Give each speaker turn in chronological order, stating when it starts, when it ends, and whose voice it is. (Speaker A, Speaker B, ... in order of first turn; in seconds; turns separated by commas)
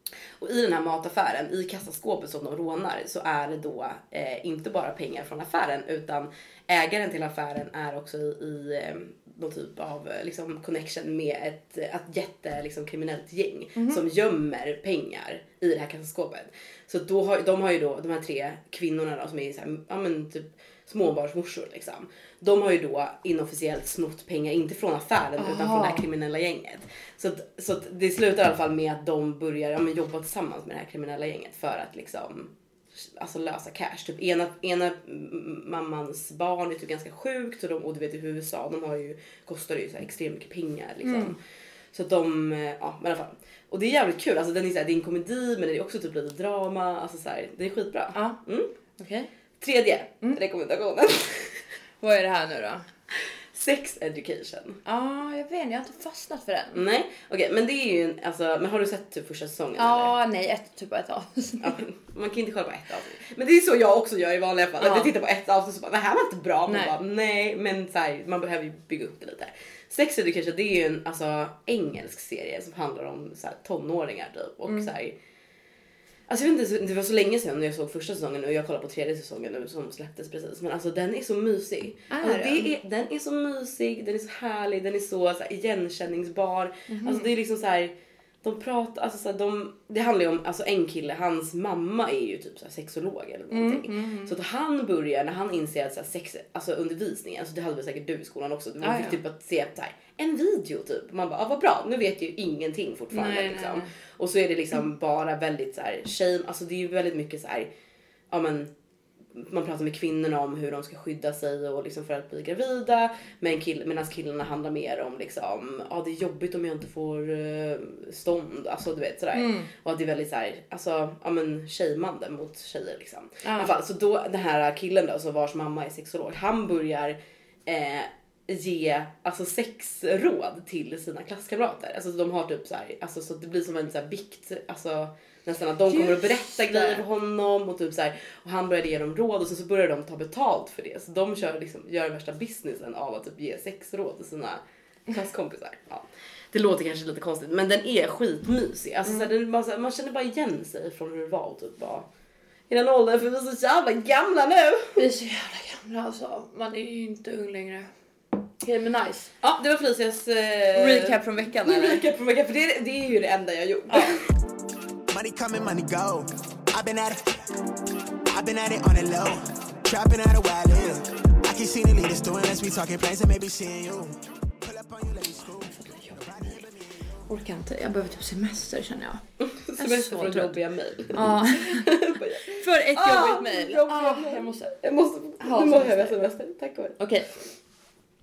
Speaker A: 0.4-41.4, Speaker B: 13.8-14.0, Speaker B: 25.4-26.1, Speaker B: 41.0-41.4, Speaker A: 41.9-48.7, Speaker B: 48.1-48.4, Speaker B: 49.0-49.3, Speaker A: 49.6-51.6, Speaker B: 52.0-52.9, Speaker A: 53.5-54.8, Speaker B: 54.9-56.8, Speaker A: 56.7-60.1, Speaker B: 59.8-61.8, Speaker A: 61.6-75.2, Speaker B: 64.8-65.1, Speaker B: 66.7-66.9, Speaker A: 76.3-107.7, Speaker B: 82.1-82.7, Speaker B: 86.9-87.3, Speaker B: 93.5-94.3, Speaker B: 98.8-99.2, Speaker B: 103.1-103.9, Speaker A: 108.3-108.7, Speaker A: 109.3-152.1, Speaker B: 119.3-119.7, Speaker B: 123.4-123.7, Speaker B: 135.9-137.0, Speaker A: 152.7-155.0, Speaker B: 155.0-157.9, Speaker B: 158.6-159.5, Speaker A: 159.4-164.2, Speaker B: 160.7-162.0, Speaker B: 163.9-164.2, Speaker C: 165.1-167.4, Speaker C: 168.3-176.8, Speaker B: 175.5-176.7, Speaker B: 177.3-179.2, Speaker A: 179.4-187.0, Speaker B: 179.8-180.6, Speaker B: 181.1-181.9, Speaker B: 182.5-184.8, Speaker B: 185.4-186.2, Speaker B: 187.0-187.4